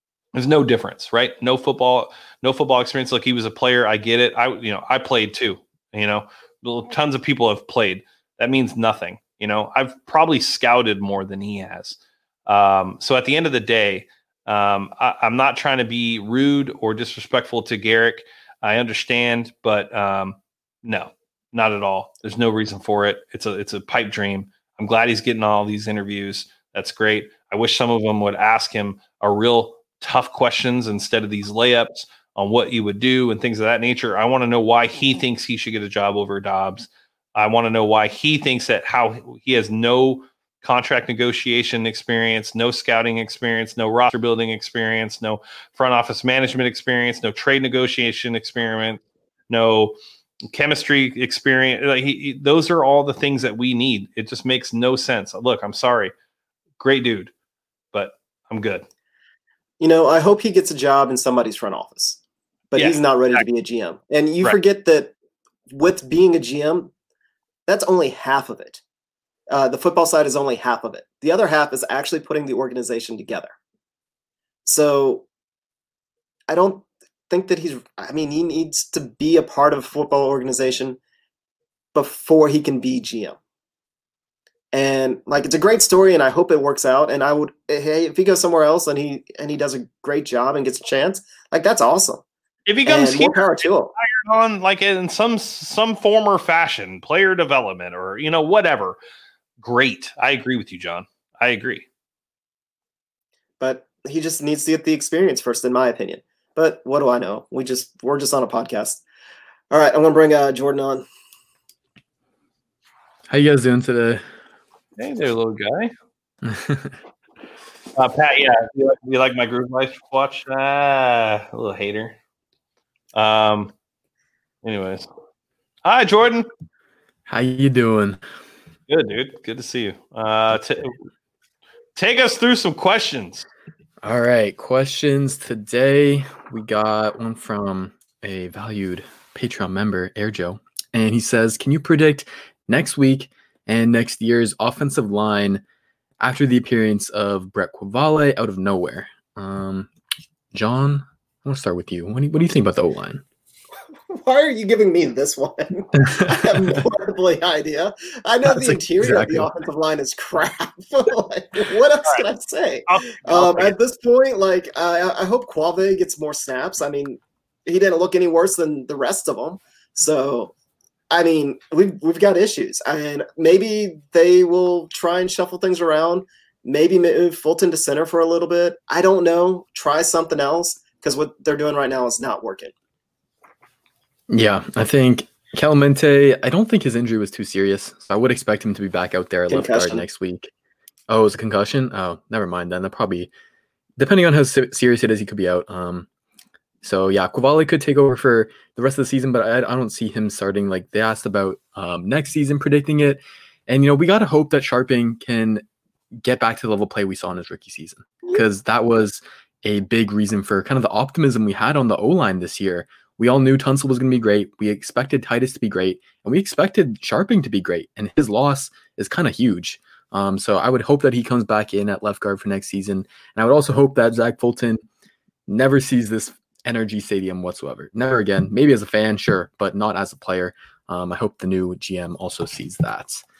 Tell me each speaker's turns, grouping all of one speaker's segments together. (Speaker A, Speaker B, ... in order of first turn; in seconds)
Speaker A: 0.3-50.0, 50.5-56.1, 56.8-57.3, 57.9-58.9, 62.8-63.4, 92.7-99.0, 99.6-101.8, 115.0-115.9, 117.9-122.2, 123.1-123.7, 124.6-125.1, 125.8-126.5, 128.9-131.0, 131.9-133.4, 162.9-163.7
Speaker B: 59.8-62.2, 62.7-65.1, 65.7-66.9, 67.7-68.8, 69.5-73.5, 74.7-75.2, 76.5-81.0, 81.9-83.3, 84.7-92.2, 92.8-93.9, 103.6-109.0, 109.7-111.0, 154.1-170.5, 171.1-182.7, 189.5-190.0
Speaker C: 113.3-114.2, 116.4-116.9, 127.3-128.2, 134.0-145.6, 146.2-149.9, 150.5-153.2, 156.1-156.6, 158.4-159.5, 184.3-190.5, 191.1-193.3, 194.0-196.1, 196.8-205.6, 206.2-224.8, 225.5-233.2